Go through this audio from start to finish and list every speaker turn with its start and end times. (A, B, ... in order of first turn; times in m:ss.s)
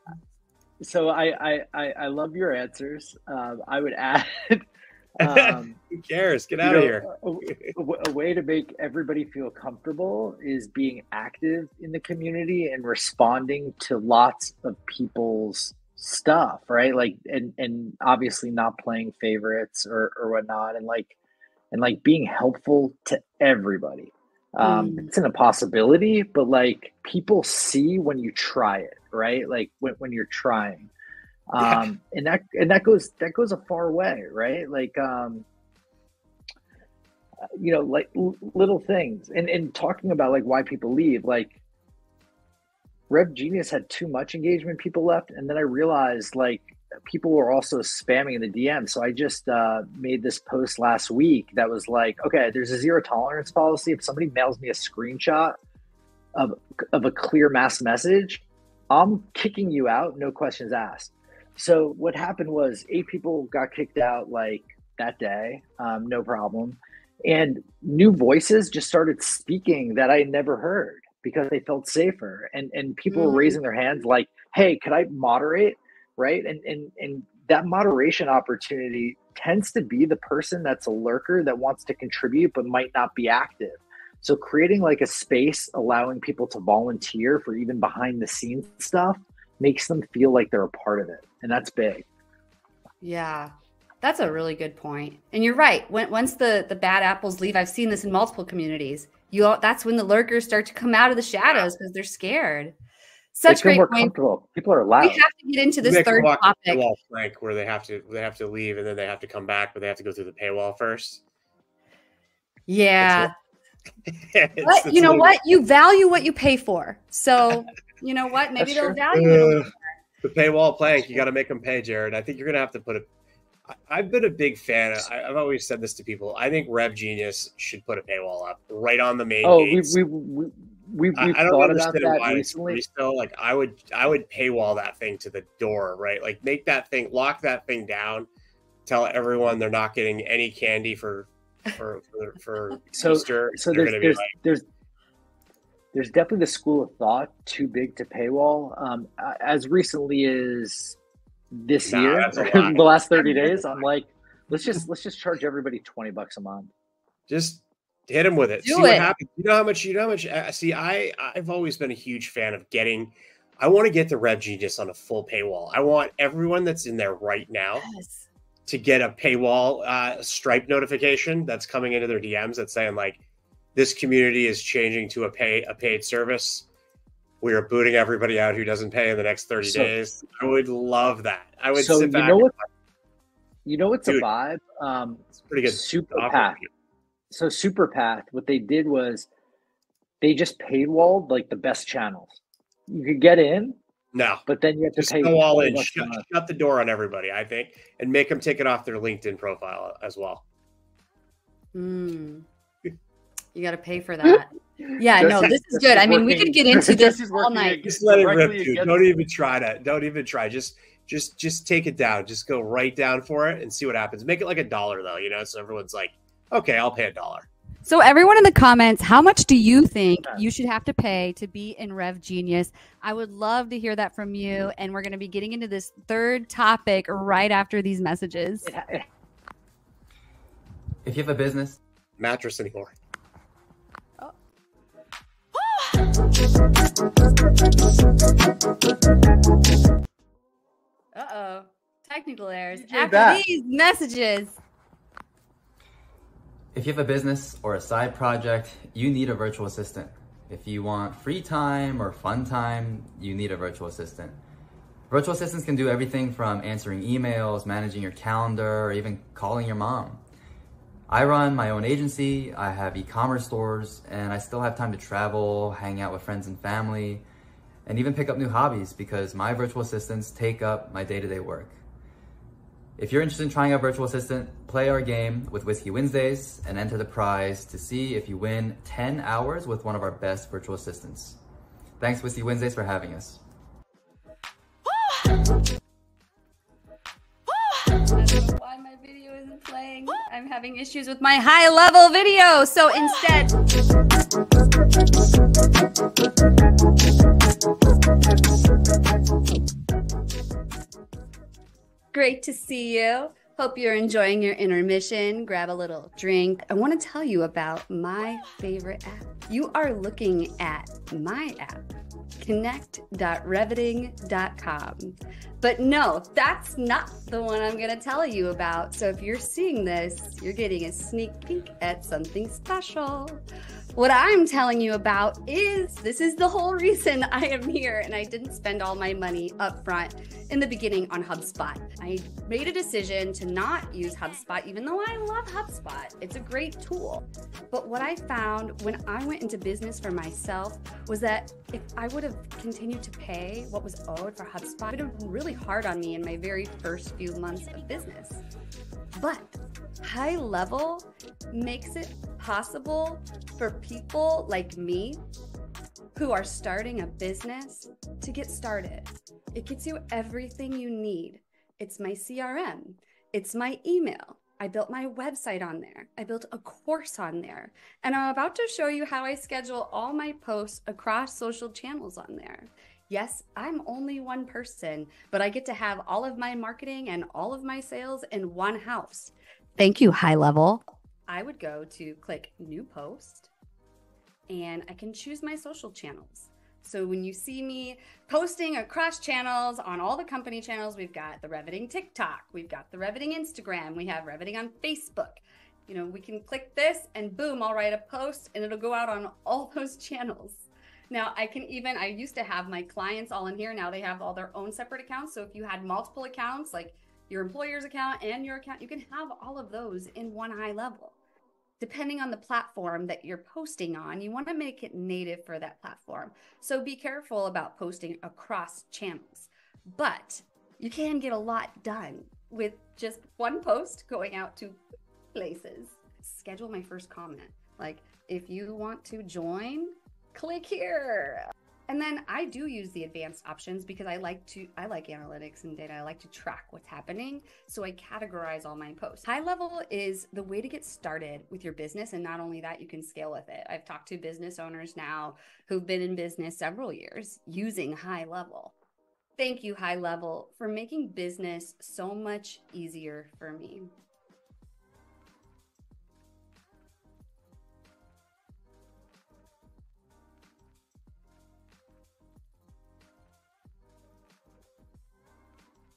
0:00.8-0:04.6 A
0:05.2-0:05.8 A
0:05.2-0:07.8 B
0:06.6-0:21.1 A
0:21.7-0:30.9 A
0:24.6-0:25.1 C
0:31.5-0:35.4 A
0:31.6-0:31.9 B
0:37.5-0:41.6 A
0:43.1-0:55.6 A
0:56.3-1:32.1 A
1:13.1-1:13.6 C
1:33.0-1:42.7 C
1:43.3-1:44.1 C
1:43.5-1:45.2 A
1:45.0-1:46.8 C
1:45.8-1:51.2 B
1:52.7-1:53.3 C
1:53.0-1:53.3 B
1:54.1-1:55.3 B
1:54.6-1:59.8 C
1:58.6-1:59.0 A
1:59.1-1:59.7 B
2:00.2-2:03.1 B
2:03.7-2:10.0 B
2:09.4-2:12.8 A
2:11.2-2:18.3 B
2:18.8-2:24.3 B
2:22.9-2:24.6 A
2:25.9-2:31.0 A
2:31.5-2:36.7 A
2:31.8-2:32.9 B
2:33.2-2:33.6 C
2:37.3-2:47.9 B
2:38.6-2:39.1 C
2:47.8-2:48.2 C
2:48.7-2:53.2 B
2:53.7-2:56.6 B
2:57.4-3:02.6 B
2:59.6-2:59.9 A
3:01.8-3:02.5 A
3:03.6-3:06.6 A
3:05.4-3:06.7 B
3:07.3-3:09.3 A
3:10.2-3:13.8 A
3:14.1-3:14.4 B
3:14.5-3:16.2 A
3:15.0-3:20.4 B
3:21.7-3:22.4 C
3:23.5-3:27.8 C
3:25.1-3:29.1 A
3:27.8-3:37.5 B
3:37.8-3:48.7 C
3:48.6-3:49.0 A
3:51.0-3:51.8 D
3:52.2-3:52.9 B
4:01.1-4:04.6 C
4:02.7-4:03.4 A
4:06.7-4:14.4 D
4:15.1-4:20.2 D
4:21.1-4:27.2 D
4:27.8-4:31.7 D
4:33.0-4:41.4 D
4:42.0-4:43.4 D
4:47.9-4:53.6 C
5:02.1-5:11.8 C
5:12.4-5:23.4 C
5:24.0-5:48.4 C
5:49.1-5:55.2 C
5:56.1-6:23.5 C
6:24.5-6:51.1 C
6:51.8-7:04.8 C
7:05.3-7:28.7 C
7:29.4-7:33.9 C